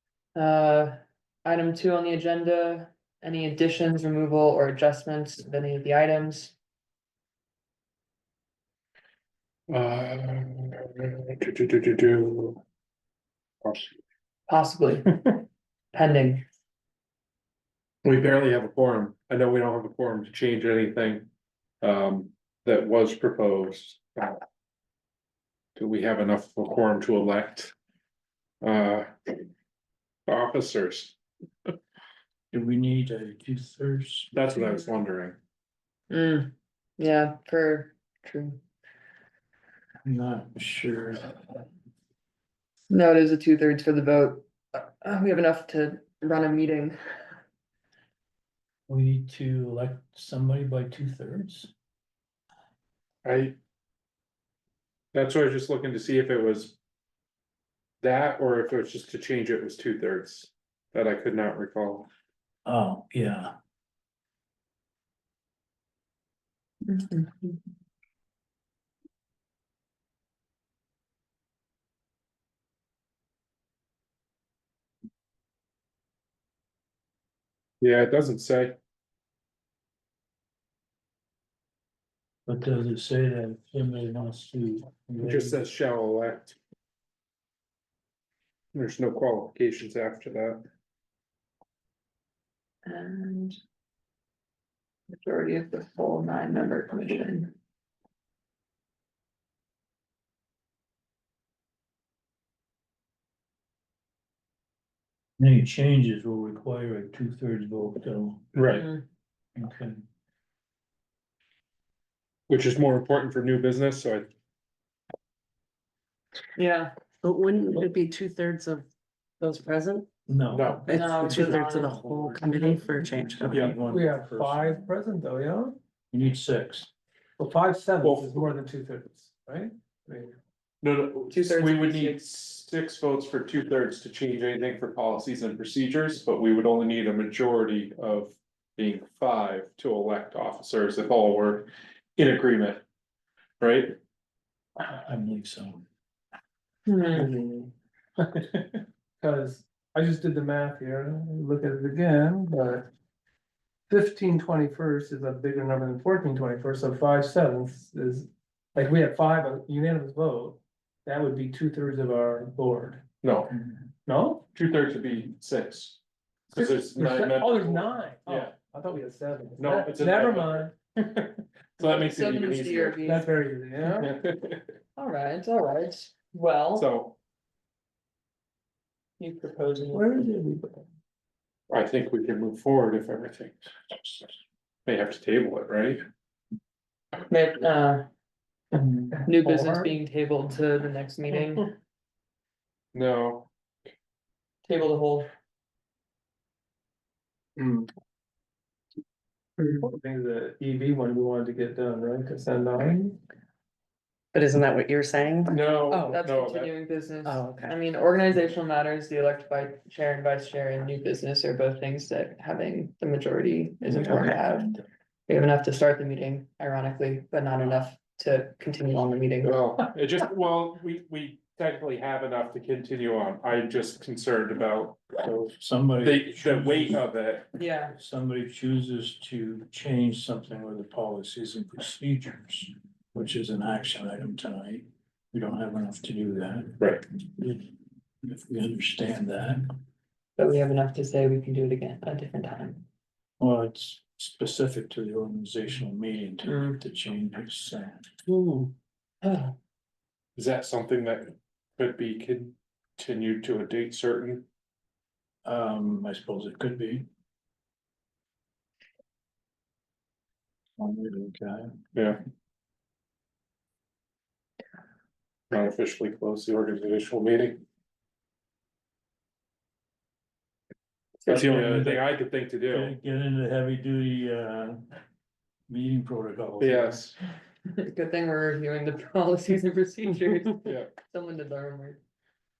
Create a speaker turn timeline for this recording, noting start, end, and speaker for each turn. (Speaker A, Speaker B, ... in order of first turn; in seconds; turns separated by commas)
Speaker A: 0.3-6.5, Speaker B: 9.7-12.6, Speaker B: 13.6-13.9, Speaker A: 14.5-16.4, Speaker B: 18.0-21.3, Speaker B: 21.8-24.4, Speaker B: 25.8-27.7, Speaker B: 28.6-29.4, Speaker B: 30.3-31.7, Speaker C: 32.5-34.3, Speaker B: 34.3-35.4, Speaker A: 36.1-38.6, Speaker C: 40.0-41.6, Speaker A: 42.9-47.0, Speaker C: 48.9-51.7, Speaker B: 53.2-53.6, Speaker B: 55.1-56.8, Speaker B: 58.0-62.1, Speaker C: 62.6-63.5, Speaker A: 66.9-67.6, Speaker B: 77.8-78.8, Speaker C: 82.5-85.6, Speaker B: 85.2-86.6, Speaker B: 88.7-90.6, Speaker A: 92.9-93.6, Speaker A: 95.1-97.5, Speaker C: 105.4-108.5, Speaker B: 108.5-108.9, Speaker A: 108.7-109.0, Speaker C: 109.6-110.0, Speaker B: 112.5-114.3, Speaker A: 116.6-116.9, Speaker D: 117.2-118.9, Speaker D: 119.4-120.1, Speaker C: 120.3-124.9, Speaker B: 120.5-121.0, Speaker D: 120.9-123.7, Speaker A: 120.9-122.7, Speaker B: 123.5-123.8, Speaker E: 123.9-125.8, Speaker C: 126.1-126.9, Speaker E: 127.4-130.3, Speaker B: 128.0-128.4, Speaker B: 130.8-142.8, Speaker A: 131.3-132.2, Speaker B: 143.6-144.0, Speaker C: 144.8-145.8, Speaker A: 146.9-147.3, Speaker E: 147.1-152.9, Speaker E: 153.9-163.0, Speaker B: 163.2-163.5, Speaker E: 164.1-164.4, Speaker B: 164.5-166.0, Speaker B: 166.5-168.6, Speaker E: 166.6-170.7, Speaker B: 169.6-173.2, Speaker A: 172.1-173.3, Speaker E: 173.0-174.2, Speaker B: 173.9-174.6, Speaker A: 175.0-176.9, Speaker B: 176.8-177.2, Speaker A: 179.2-180.2, Speaker E: 179.9-180.8, Speaker B: 181.7-184.3, Speaker B: 184.9-186.0, Speaker A: 187.3-188.1, Speaker E: 188.7-189.9, Speaker A: 189.2-191.7, Speaker B: 192.9-193.5, Speaker A: 194.7-195.3, Speaker E: 197.6-197.9, Speaker E: 199.6-203.2, Speaker D: 204.3-206.2, Speaker B: 205.5-206.7, Speaker A: 206.0-219.6, Speaker D: 207.2-207.7, Speaker D: 213.9-214.4, Speaker B: 219.4-227.5, Speaker C: 225.6-227.0, Speaker A: 227.6-228.0, Speaker C: 227.9-237.7, Speaker C: 238.2-239.7, Speaker A: 240.4-242.8, Speaker C: 243.4-248.1, Speaker A: 246.5-246.8, Speaker A: 249.2-249.5, Speaker B: 250.4-254.5, Speaker C: 255.4-257.1, Speaker C: 260.8-261.7, Speaker B: 261.9-262.2, Speaker B: 265.5-267.6, Speaker A: 271.2-271.6, Speaker B: 271.3-272.9, Speaker C: 271.3-272.1, Speaker C: 272.6-274.8, Speaker C: 275.7-277.1, Speaker B: 276.6-277.2, Speaker A: 277.7-282.0, Speaker B: 280.6-280.9